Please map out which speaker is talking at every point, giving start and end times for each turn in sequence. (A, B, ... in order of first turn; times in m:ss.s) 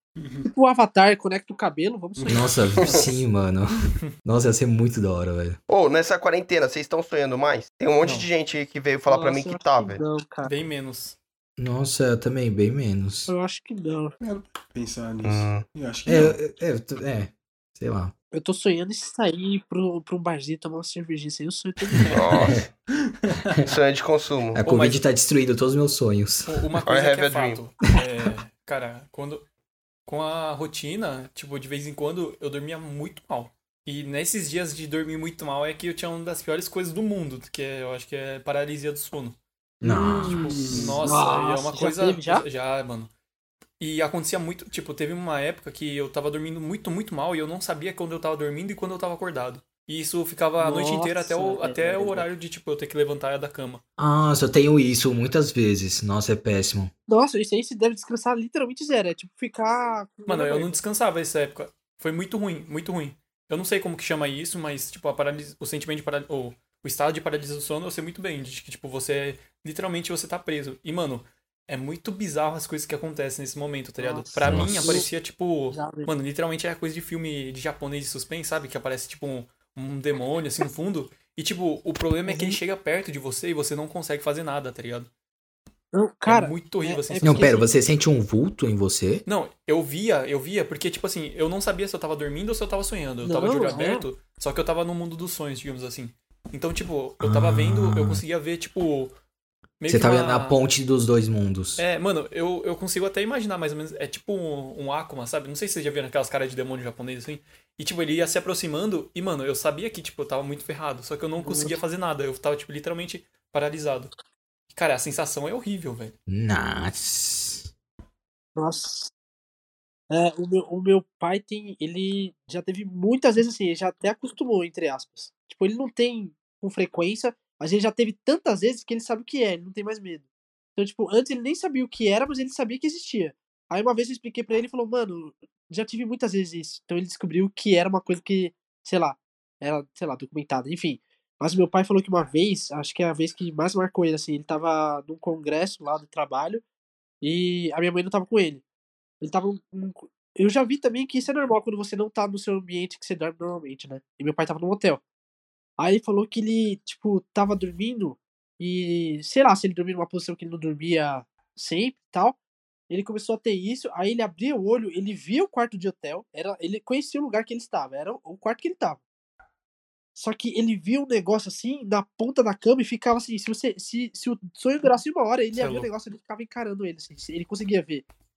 0:00.2-0:00.4 A
0:00.4-0:02.9 B
0:02.2-0:03.2 A
0:02.3-0:05.6 C
0:05.7-0:10.0 D
0:08.0-0:08.3 E
0:09.1-0:10.5 B
0:10.4-0:11.2 E
0:11.6-0:13.3 C
0:13.3-0:14.1 B
0:14.2-0:16.4 A
0:15.2-0:15.6 D
0:16.0-0:18.1 C
0:18.3-0:22.2 B
0:21.9-0:22.4 E
0:22.1-0:22.7 D
0:23.2-0:23.5 A
0:23.6-0:24.6 D
0:24.5-0:26.5 C
0:24.6-0:25.0 E
0:26.4-0:29.4 E
0:26.8-0:27.6 D
0:30.0-0:39.4 E
0:39.8-0:40.4 C
0:39.8-0:42.4 B
0:40.1-0:43.1 E
0:40.2-0:41.0 A
0:43.8-0:53.8 E
0:50.6-0:52.3 B
0:54.0-0:56.9 C
0:57.1-1:00.8 B
1:00.3-1:25.1 E
1:14.0-1:15.0 B
1:14.4-1:15.0 C
1:15.7-1:16.1 B
1:22.3-1:22.6 B
1:25.9-1:27.7 B
1:26.2-1:27.6 E
1:27.2-1:29.2 C
1:29.2-1:39.1 E
1:33.2-1:34.1 B
1:37.2-1:38.2 C
1:39.8-1:40.6 E
1:39.9-1:41.8 C
1:41.8-1:54.1 E
1:51.4-1:51.8 B
1:54.7-1:56.1 E
1:56.3-1:57.7 C
1:58.6-1:59.1 B
2:00.1-2:10.2 B
2:10.8-2:26.6 B
2:27.2-2:28.6 B
2:29.2-2:35.0 B
2:35.8-2:42.4 B
2:42.9-2:49.0 B
2:50.1-2:58.0 B
2:55.5-2:55.9 E